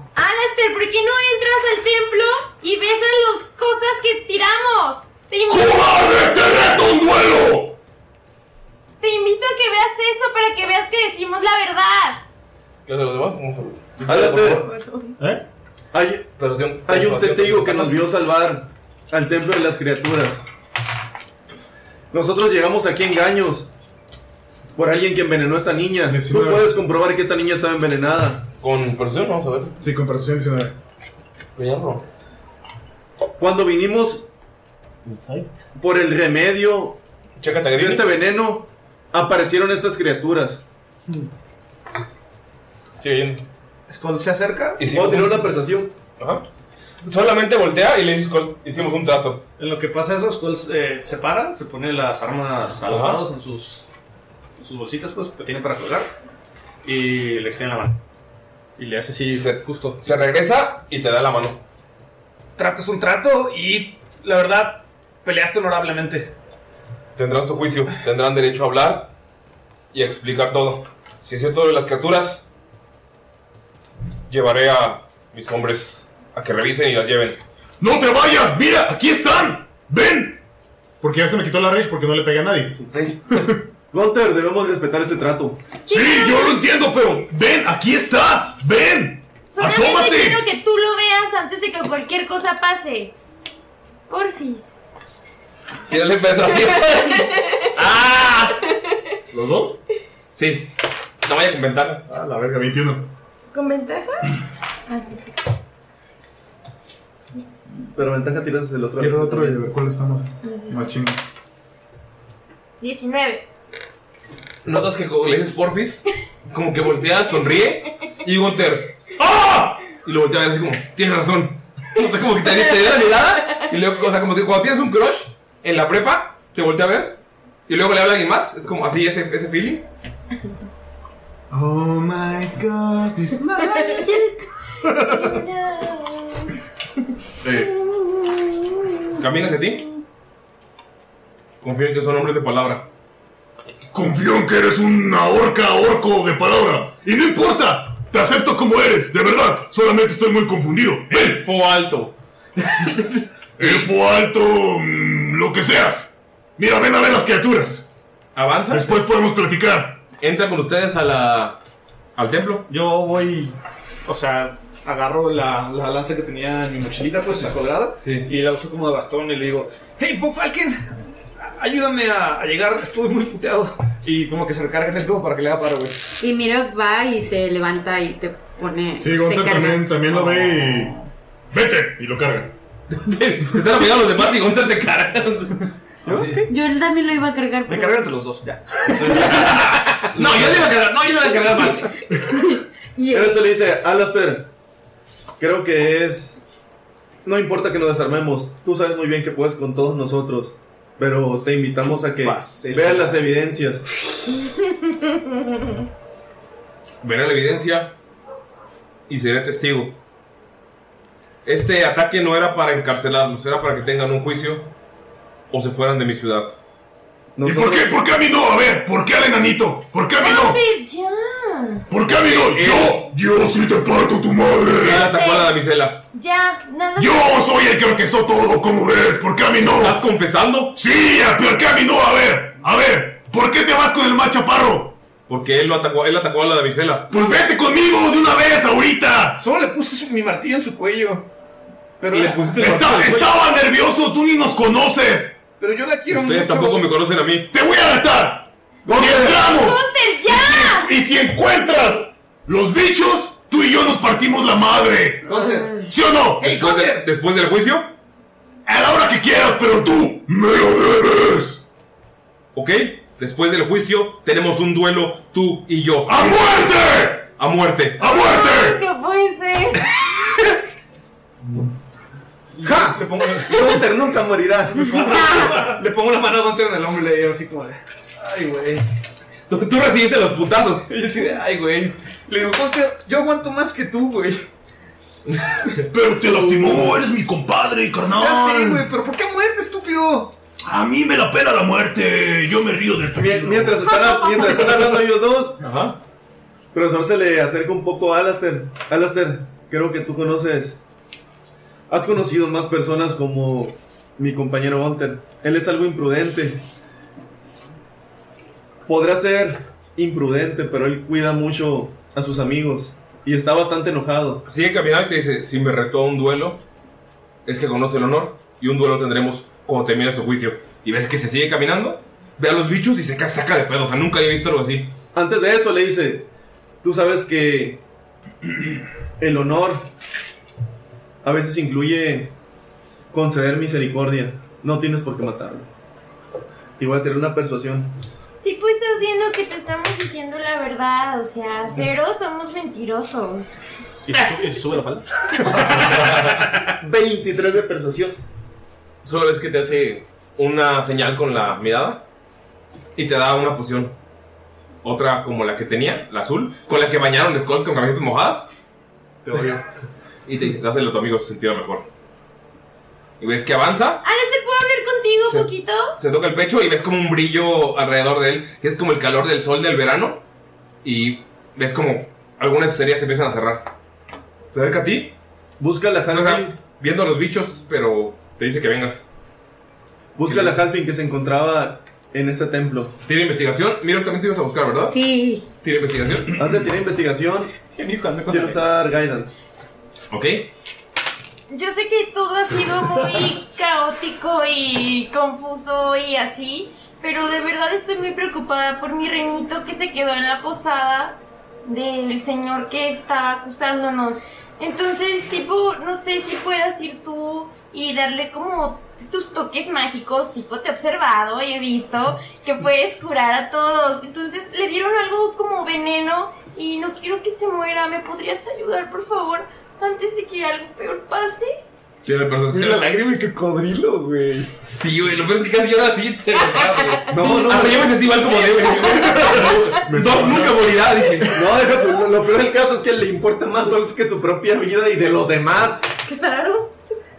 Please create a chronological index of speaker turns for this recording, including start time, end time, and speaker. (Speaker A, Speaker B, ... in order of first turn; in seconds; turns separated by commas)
Speaker A: 0.1-6.2, Speaker B: 5.5-7.8, Speaker A: 9.0-12.2, Speaker C: 12.8-14.7, Speaker D: 14.0-14.6, Speaker A: 14.5-15.2, Speaker D: 15.9-16.3, Speaker C: 16.4-18.1, Speaker D: 16.9-20.4, Speaker D: 22.1-23.7, Speaker D: 24.8-28.4, Speaker E: 26.1-26.7, Speaker C: 28.6-29.7, Speaker E: 29.8-30.7, Speaker C: 31.6-32.0, Speaker D: 33.4-34.2, Speaker C: 35.0-35.6, Speaker D: 35.8-37.0, Speaker C: 37.4-38.1, Speaker D: 37.8-40.6, Speaker C: 43.0-43.4, Speaker F: 43.9-44.8, Speaker C: 44.8-45.5, Speaker D: 44.8-45.9, Speaker C: 46.2-46.4, Speaker C: 47.0-49.4, Speaker F: 49.6-53.8, Speaker C: 52.9-53.2, Speaker F: 54.6-56.1, Speaker F: 56.8-58.0, Speaker F: 58.8-60.0, Speaker C: 59.3-61.6, Speaker F: 62.6-66.3, Speaker C: 67.2-69.1, Speaker C: 69.9-72.5, Speaker C: 74.3-77.4, Speaker B: 77.8-80.4, Speaker E: 81.0-82.8, Speaker C: 82.9-83.4, Speaker D: 83.9-85.6, Speaker A: 85.8-86.6, Speaker B: 85.9-90.4, Speaker A: 89.5-93.1, Speaker A: 94.1-94.8, Speaker C: 95.9-98.5, Speaker A: 96.6-97.7, Speaker E: 99.3-99.8, Speaker C: 100.3-100.7, Speaker C: 101.2-102.0, Speaker E: 102.1-103.1, Speaker A: 103.5-104.3, Speaker A: 104.9-105.2, Speaker D: 107.8-109.6, Speaker E: 109.0-111.2, Speaker A: 110.4-110.9, Speaker A: 112.8-113.5, Speaker C: 114.6-129.8, Speaker A: 122.4-123.6, Speaker E: 131.5-134.2, Speaker A: 133.7-134.3, Speaker E: 134.8-135.4, Speaker A: 135.0-136.5, Speaker C: 137.4-137.7, Speaker A: 137.5-139.5, Speaker C: 139.2-139.8, Speaker C: 141.6-142.8, Speaker B: 143.9-151.4, Speaker C: 151.1-153.9, Speaker B: 153.6-157.8, Speaker C: 158.3-159.0, Speaker B: 158.7-160.0, Speaker C: 160.2-161.6, Speaker C: 162.2-162.7, Speaker F: 162.7-163.5, Speaker F: 164.0-170.8, Speaker C: 168.0-168.3, Speaker F: 171.4-176.0, Speaker G: 176.2-180.0, Speaker E: 179.0-180.9, Speaker F: 180.0-181.1, Speaker B: 181.5-182.5, Speaker C: 182.9-186.4, Speaker F: 186.0-186.4, Speaker G: 186.5-188.2, Speaker F: 187.7-190.7, Speaker C: 189.0-191.9, Speaker G: 192.9-193.5, Speaker D: 193.1-194.5, Speaker D: 195.4-196.4, Speaker D: 197.2-203.8, Speaker F: 202.2-203.2, Speaker A: 204.4-204.7, Speaker C: 207.0-207.9, Speaker C: 209.1-209.9, Speaker C: 211.4-214.7, Speaker C: 215.5-216.5, Speaker D: 217.3-217.9, Speaker B: 217.4-220.6, Speaker A: 220.2-221.9, Speaker B: 221.9-225.0, Speaker C: 222.2-223.1, Speaker A: 224.8-225.5, Speaker C: 224.8-226.0, Speaker A: 226.1-227.5, Speaker B: 227.0-230.0, Speaker C: 229.7-230.8, Speaker B: 230.7-234.9, Speaker C: 235.3-237.4, Speaker B: 237.1-239.4, Speaker F: 239.4-241.3, Speaker F: 242.0-242.7, Speaker C: 242.1-243.4, Speaker B: 242.5-245.4, Speaker F: 245.6-246.9, Speaker C: 246.1-247.5, Speaker B: 247.5-255.2, Speaker A: 249.2-250.9, Speaker F: 255.2-257.1, Speaker B: 255.8-256.5, Speaker C: 256.4-257.9, Speaker B: 258.6-261.6, Speaker C: 262.5-268.1, Speaker B: 266.1-267.2, Speaker B: 268.0-268.8, Speaker A: 268.0-270.2, Speaker F: 272.5-273.7, Speaker A: 273.3-273.8, Speaker D: 273.5-274.9, Speaker F: 274.7-278.8, Speaker A: 275.1-275.6, Speaker C: 279.5-280.9, Speaker F: 280.9-284.4, Speaker B: 285.9-288.9, Speaker F: 286.4-286.9, Speaker F: 288.1-290.3, Speaker B: 290.6-294.0, Speaker D: 293.1-295.6, Speaker C: 295.6-296.0, Speaker D: 296.7-300.8, Speaker D: 301.9-306.6, Speaker D: 308.9-314.4, Speaker C: 314.4-316.6, Speaker C: 317.4-324.9, Speaker D: 325.1-326.2, Speaker D: 326.8-327.8, Speaker D: 329.2-329.8, Speaker D: 331.2-332.3, Speaker D: 333.1-335.7, Speaker D: 336.8-337.9, Speaker A: 338.4-343.5, Speaker F: 344.1-346.6, Speaker D: 346.8-348.2, Speaker C: 349.0-352.0, Speaker C: 352.9-353.9, Speaker C: 354.8-358.5, Speaker C: 360.2-361.9, Speaker C: 363.2-364.0, Speaker A: 364.0-365.9, Speaker C: 365.3-370.2, Speaker C: 370.8-373.6, Speaker C: 374.5-375.1, Speaker D: 375.6-376.5, Speaker C: 376.1-379.0, Speaker D: 380.1-382.9, Speaker C: 380.3-380.6, Speaker C: 383.1-385.0, Speaker G: 384.9-385.4, Speaker C: 385.6-386.3, Speaker D: 386.4-387.5, Speaker F: 387.7-388.6, Speaker D: 388.3-389.3, Speaker C: 390.1-390.5, Speaker A: 391.5-421.6, Speaker C: 422.0-422.8, Speaker F: 422.5-424.5, Speaker C: 424.6-431.4, Speaker A: 426.3-429.8, Speaker D: 427.1-427.8, Speaker E: 429.8-430.6, Speaker D: 431.3-435.9, Speaker A: 436.0-436.7